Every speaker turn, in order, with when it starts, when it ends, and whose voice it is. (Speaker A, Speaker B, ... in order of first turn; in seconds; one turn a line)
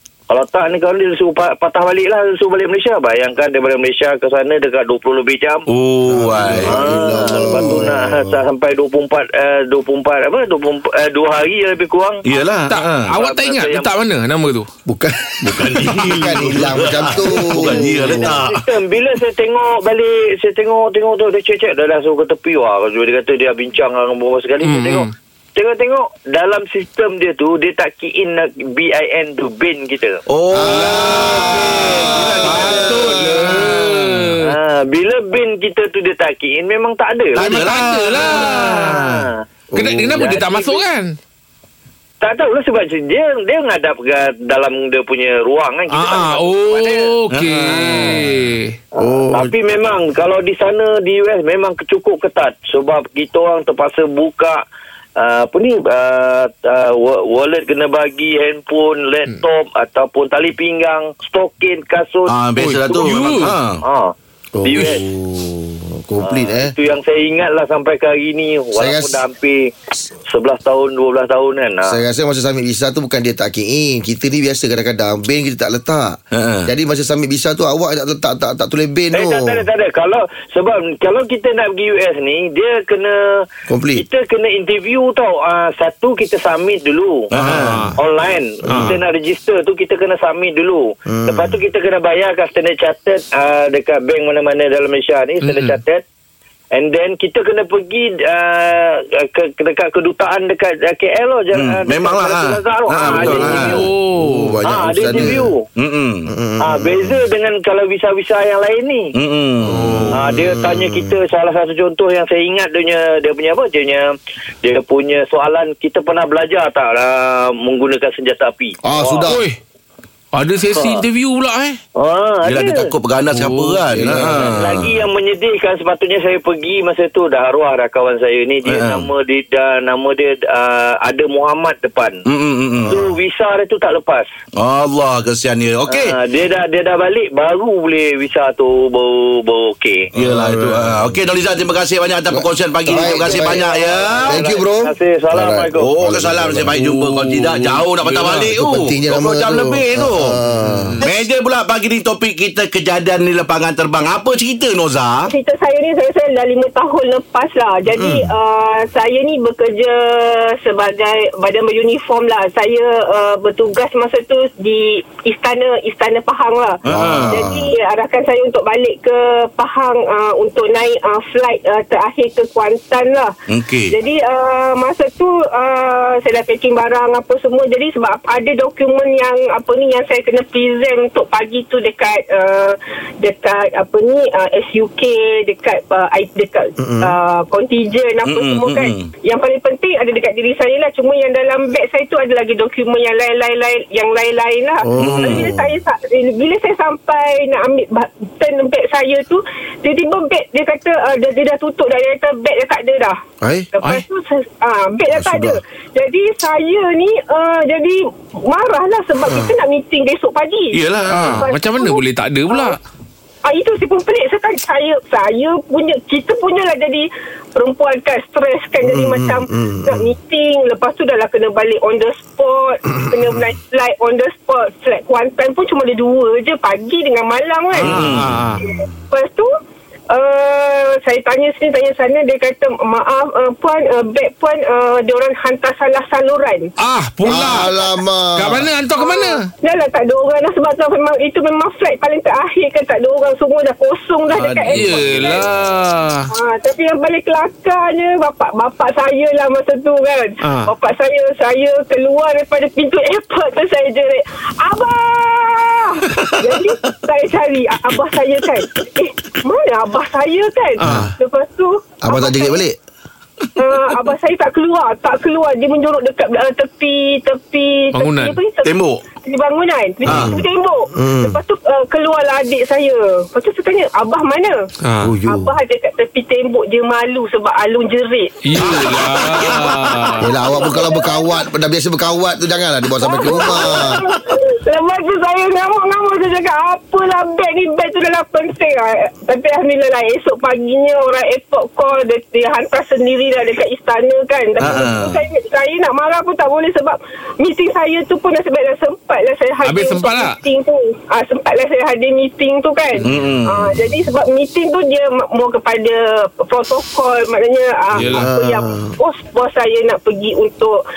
Speaker A: 0.3-5.7
Speaker B: 5.7-6.8
Speaker C: 6.1-8.4
Speaker A: 6.6-12.2
Speaker B: 12.2-13.1
Speaker D: 12.7-14.7
Speaker A: 13.1-13.9
Speaker C: 14.9-18.3
Speaker B: 15.5-18.6
Speaker A: 18.1-30.2
Speaker D: 24.6-25.1
Speaker B: 30.3-34.1
Speaker C: 30.5-31.8
Speaker D: 30.6-34.5
Speaker A: 31.5-33.7
Speaker A: 34.4-37.6
Speaker D: 37.4-39.0
Speaker B: 37.4-39.1
Speaker A: 38.1-39.3
Speaker C: 39.7-40.2
Speaker D: 39.7-41.1
Speaker A: 40.0-40.8
Speaker A: 42.2-47.1
Speaker D: 45.9-48.8
Speaker B: 47.3-48.1
Speaker A: 47.7-48.2
Speaker C: 49.0-49.5
Speaker A: 49.0-54.6
Speaker A: 55.2-62.3
Speaker B: 62.3-63.8
Speaker D: 62.6-63.5
Speaker A: 63.8-65.0
Speaker C: 64.5-66.7
Speaker A: 66.2-69.6
Speaker C: 68.7-69.2
Speaker A: 70.3-72.0
Speaker C: 71.8-79.6
Speaker B: 76.3-76.7
Speaker A: 79.1-83.4
Speaker C: 83.7-84.0
Speaker A: 83.9-87.3
Speaker B: 87.3-87.9
Speaker D: 87.4-88.0
Speaker A: 88.0-96.0
Speaker D: 88.7-89.0
Speaker C: 91.1-91.6
Speaker D: 95.4-95.8
Speaker A: 96.7-103.8
Speaker B: 101.5-103.8
Speaker D: 103.0-104.6
Speaker C: 103.2-103.7
Speaker C: 104.2-105.5
Speaker A: 104.7-105.6
Speaker B: 105.8-106.3
Speaker C: 106.3-107.2
Speaker A: 106.6-109.1
Speaker B: 109.1-110.1
Speaker D: 109.7-110.3
Speaker A: 110.1-119.3
Speaker C: 110.3-111.1
Speaker C: 118.8-119.4
Speaker D: 119.2-119.6
Speaker D: 120.3-121.8
Speaker A: 120.8-121.0
Speaker A: 122.0-122.9
Speaker B: 122.4-125.0
Speaker D: 123.3-124.5
Speaker C: 123.9-124.5
Speaker A: 124.6-132.2
Speaker B: 128.7-129.1
Speaker B: 132.2-133.1
Speaker A: 132.9-134.3
Speaker B: 134.6-136.2
Speaker A: 135.9-140.1
Speaker B: 140.1-144.4
Speaker C: 140.1-141.2
Speaker C: 142.3-146.8
Speaker A: 142.9-145.9
Speaker B: 145.8-150.4
Speaker D: 146.7-148.5
Speaker C: 148.3-151.0
Speaker D: 150.6-151.2
Speaker B: 151.0-155.3
Speaker E: 155.3-173.3
Speaker C: 157.9-158.3
Speaker B: 166.8-167.5
Speaker C: 166.9-167.7
Speaker B: 173.5-173.9
Speaker E: 173.9-203.2
Speaker C: 186.8-187.2
Speaker B: 188.2-189.1
Speaker C: 194.8-195.8
Speaker B: 195.0-195.5
Speaker C: 203.4-203.7
Speaker E: 203.7-212.8
Speaker C: 205.1-205.6
Speaker C: 209.2-209.5
Speaker B: 210.7-211.4
Speaker D: 211.1-212.8
Speaker E: 213.4-229.5
Speaker C: 218.8-220.1
Speaker B: 227.8-228.4
Speaker D: 227.8-228.6
Speaker C: 228.6-228.9
Speaker E: 230.1-236.7
Speaker D: 236.8-237.8
Speaker C: 237.2-238.7
Speaker D: 238.3-239.5
Speaker E: 239.0-245.4
Speaker B: 244.3-245.4
Speaker D: 244.7-246.3
Speaker E: 246.3-262.6
Speaker D: 250.4-250.7
Speaker D: 260.8-261.1
Speaker C: 260.8-261.1
Speaker C: 262.0-262.8
Speaker E: 263.6-274.7
Speaker D: 267.9-268.4
Speaker B: 268.6-269.0
Speaker B: 270.1-270.4
Speaker C: 270.1-270.4
Speaker C: 270.9-271.4
Speaker D: 274.8-275.1
Speaker C: 275.0-275.5
Speaker E: 275.2-278.8
Speaker D: 278.4-280.3
Speaker B: 278.6-280.1
Speaker C: 280.2-284.0
Speaker E: 280.4-281.3
Speaker E: 283.0-310.8
Speaker B: 294.6-295.2
Speaker D: 299.6-300.4
Speaker B: 303.0-303.8
Speaker D: 307.9-308.3
Speaker C: 308.1-308.9